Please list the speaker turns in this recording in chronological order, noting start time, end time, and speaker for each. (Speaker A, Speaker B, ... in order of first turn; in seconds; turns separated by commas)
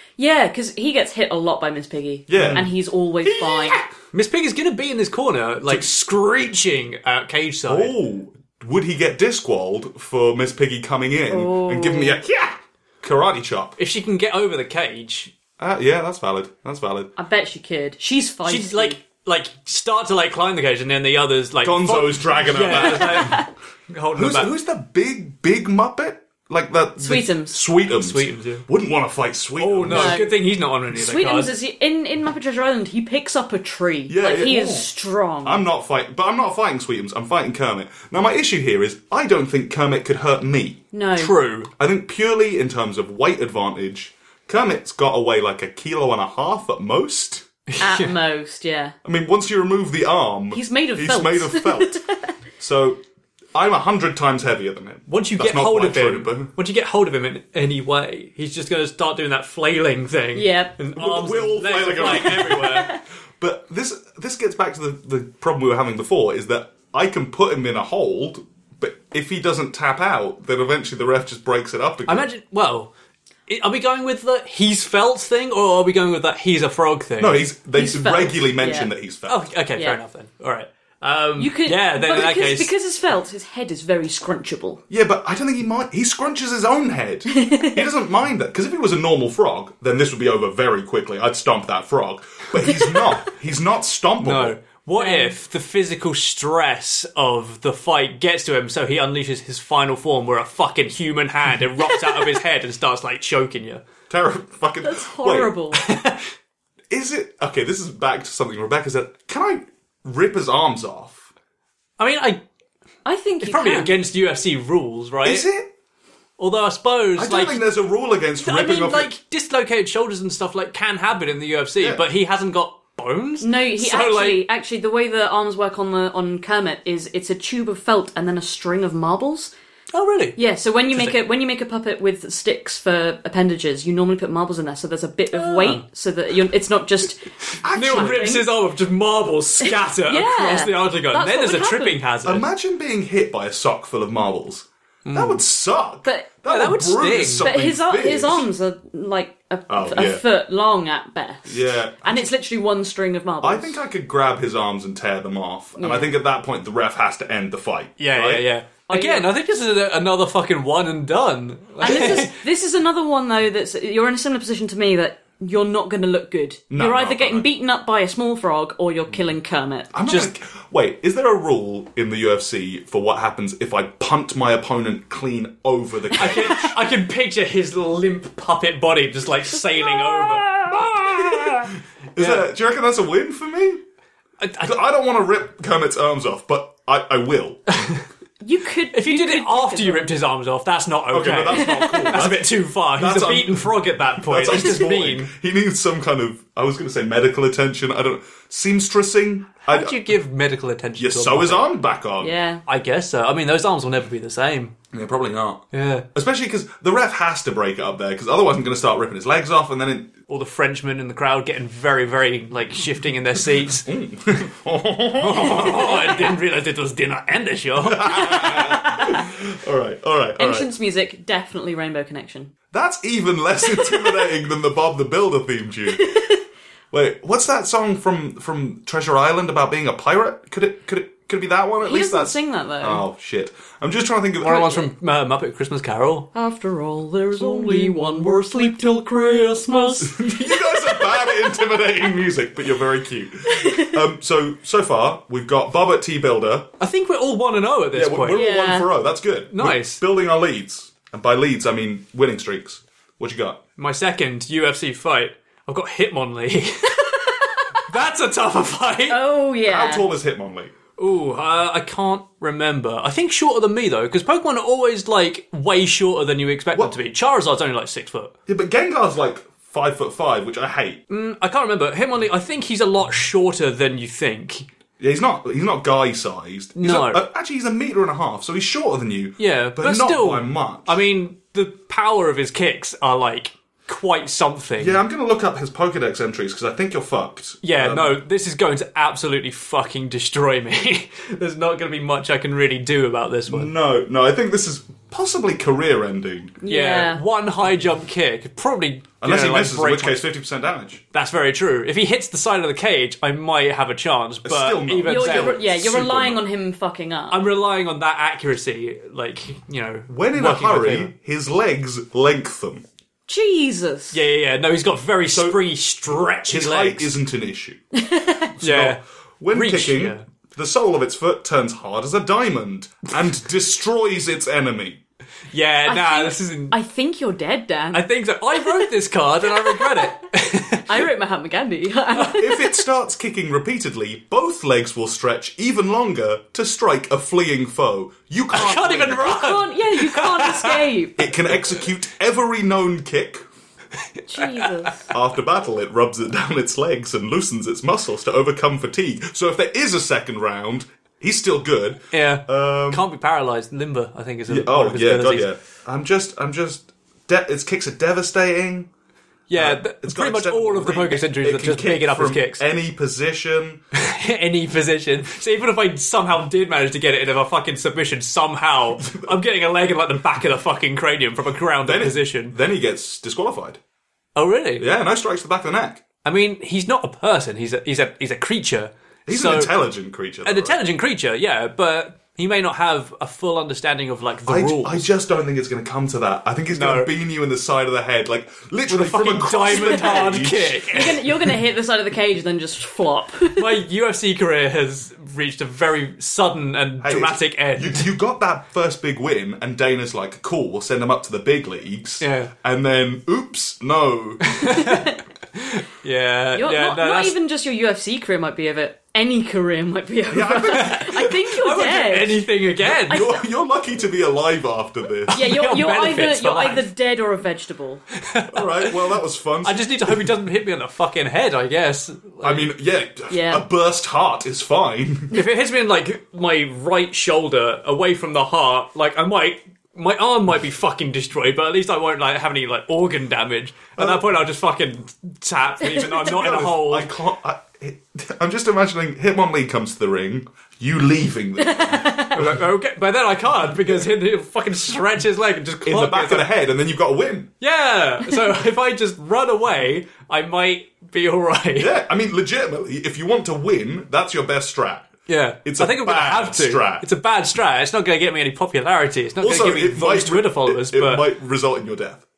Speaker A: 0.2-3.9, Speaker B: 2.3-2.7, Speaker C: 2.3-8.0, Speaker B: 7.7-13.8, Speaker A: 11.3-12.2, Speaker C: 13.8-15.3, Speaker B: 15.6-17.1, Speaker A: 17.2-19.0, Speaker C: 18.4-24.5, Speaker B: 21.6-23.4, Speaker A: 22.7-23.5, Speaker B: 24.1-30.2, Speaker A: 27.0-27.6, Speaker C: 27.9-28.7, Speaker C: 29.6-31.5, Speaker A: 29.9-30.4, Speaker A: 30.9-35.6, Speaker B: 34.1-34.9, Speaker B: 35.4-40.8, Speaker A: 40.9-41.4, Speaker C: 41.1-41.7, Speaker B: 41.8-47.5, Speaker C: 47.7-48.1, Speaker A: 47.8-49.0, Speaker B: 49.0-52.0, Speaker A: 50.5-52.3, Speaker B: 52.6-53.0, Speaker B: 53.5-56.5, Speaker C: 55.1-63.0, Speaker A: 60.4-60.8, Speaker B: 61.0-72.3, Speaker A: 62.3-63.0, Speaker C: 72.1-72.9, Speaker C: 73.5-77.5, Speaker B: 77.2-79.4, Speaker A: 77.8-78.9, Speaker C: 79.3-82.7, Speaker A: 81.4-84.8, Speaker B: 84.9-94.6, Speaker A: 87.3-87.9, Speaker C: 94.2-103.8, Speaker A: 95.0-95.3, Speaker A: 101.9-102.3, Speaker B: 104.1-105.5, Speaker A: 104.8-105.8, Speaker C: 105.7-106.3, Speaker B: 106.9-111.3, Speaker C: 112.0-112.4, Speaker A: 113.0-113.9, Speaker C: 113.4-115.5, Speaker B: 115.2-115.7, Speaker C: 116.4-117.6, Speaker B: 117.2-119.1, Speaker C: 118.4-124.4, Speaker A: 123.4-129.5, Speaker C: 129.9-130.4, Speaker A: 130.4-138.5, Speaker C: 130.9-131.2, Speaker C: 135.3-135.8, Speaker B: 137.6-138.3, Speaker C: 137.7-142.5, Speaker A: 139.6-142.0, Speaker B: 142.2-148.5, Speaker C: 145.1-145.4, Speaker C: 146.4-147.5, Speaker A: 147.4-153.8, Speaker B: 149.7-150.2, Speaker B: 151.5-152.3, Speaker B: 153.4-158.5, Speaker A: 155.8-156.1, Speaker C: 158.0-162.4, Speaker A: 158.9-159.3, Speaker A: 161.8-169.9, Speaker B: 166.7-167.5, Speaker B: 169.9-176.8, Speaker C: 170.1-170.3, Speaker C: 176.1-182.4, Speaker A: 179.7-180.6, Speaker B: 180.9-183.8, Speaker C: 184.4-184.8, Speaker B: 184.6-187.6, Speaker C: 187.7-188.0, Speaker A: 188.4-190.1, Speaker C: 188.9-195.3, Speaker B: 191.1-200.0, Speaker A: 191.5-192.1, Speaker A: 194.5-194.8, Speaker C: 199.7-201.7, Speaker B: 201.0-202.3, Speaker A: 202.2-202.6, Speaker C: 202.7-204.8, Speaker B: 204.9-210.1, Speaker C: 205.7-206.1, Speaker C: 210.3-213.9, Speaker B: 213.8-216.2, Speaker C: 215.2-218.8, Speaker A: 215.6-216.3, Speaker B: 217.8-220.7, Speaker A: 218.6-219.2, Speaker A: 220.4-222.5, Speaker B: 222.7-226.2, Speaker A: 223.7-224.3, Speaker A: 225.9-226.4, Speaker B: 226.9-234.9, Speaker A: 231.8-233.0, Speaker C: 234.4-236.3, Speaker A: 236.3-241.5, Speaker C: 237.3-240.1, Speaker B: 240.0-246.7, Speaker A: 243.5-244.0, Speaker C: 246.8-248.5, Speaker B: 247.9-253.6, Speaker A: 248.3-248.9, Speaker C: 249.5-250.0, Speaker C: 253.8-257.1, Speaker A: 257.0-257.9, Speaker C: 257.9-259.2, Speaker A: 259.1-260.1, Speaker B: 259.6-260.7, Speaker C: 261.0-268.3, Speaker B: 268.5-271.0, Speaker C: 271.1-274.7, Speaker B: 275.0-281.0, Speaker C: 276.8-277.2, Speaker C: 279.4-285.0, Speaker B: 284.8-288.2, Speaker C: 287.6-293.7, Speaker B: 293.5-296.6, Speaker A: 296.6-297.2, Speaker C: 296.7-300.2, Speaker B: 299.2-301.0, Speaker C: 301.1-305.6, Speaker B: 304.4-306.4, Speaker A: 305.1-307.4, Speaker C: 307.3-311.1, Speaker B: 310.1-312.9, Speaker A: 313.3-314.2, Speaker C: 314.1-317.1, Speaker B: 315.3-315.6, Speaker B: 316.5-317.8, Speaker A: 317.9-318.5, Speaker B: 318.6-325.0, Speaker C: 318.6-319.0, Speaker C: 319.5-320.2, Speaker C: 325.5-326.7, Speaker A: 325.9-328.9, Speaker C: 327.9-331.1, Speaker A: 329.5-330.1, Speaker A: 330.9-332.7, Speaker C: 332.2-332.5, Speaker B: 332.3-339.4, Speaker C: 338.5-340.9, Speaker A: 338.6-341.3, Speaker B: 341.2-343.4, Speaker C: 344.2-344.9, Speaker A: 344.3-345.1, Speaker B: 345.1-353.1, Speaker C: 352.1-355.5, Speaker B: 354.5-358.9, Speaker C: 359.5-362.7, Speaker B: 359.5-363.8, Speaker C: 363.9-372.6, Speaker B: 369.0-369.3, Speaker B: 371.8-373.8, Speaker C: 374.4-374.9, Speaker B: 374.8-376.0, Speaker C: 376.2-379.8, Speaker B: 379.3-380.8, Speaker C: 380.4-385.1, Speaker B: 384.5-391.0, Speaker C: 386.7-387.1, Speaker C: 388.9-391.6, Speaker A: 389.7-390.2, Speaker A: 390.9-393.8, Speaker C: 393.6-398.1, Speaker B: 397.0-404.6, Speaker C: 402.2-402.5, Speaker C: 404.4-407.4, Speaker A: 404.7-405.2, Speaker A: 406.6-412.4, Speaker B: 410.3-411.1, Speaker C: 410.6-413.3, Speaker B: 412.9-415.4, Speaker A: 413.1-413.4, Speaker C: 415.3-416.9, Speaker A: 415.3-418.1, Speaker C: 418.2-422.7, Speaker B: 418.5-420.3, Speaker B: 422.4-425.3, Speaker A: 423.3-423.6, Speaker C: 425.3-437.1, Speaker B: 434.0-434.3, Speaker B: 436.0-442.6, Speaker A: 441.6-442.4, Speaker C: 442.3-446.5, Speaker B: 445.8-447.5, Speaker C: 447.6-451.9, Speaker B: 451.8-455.1, Speaker C: 455.3-461.3, Speaker B: 455.6-457.1, Speaker B: 459.4-462.2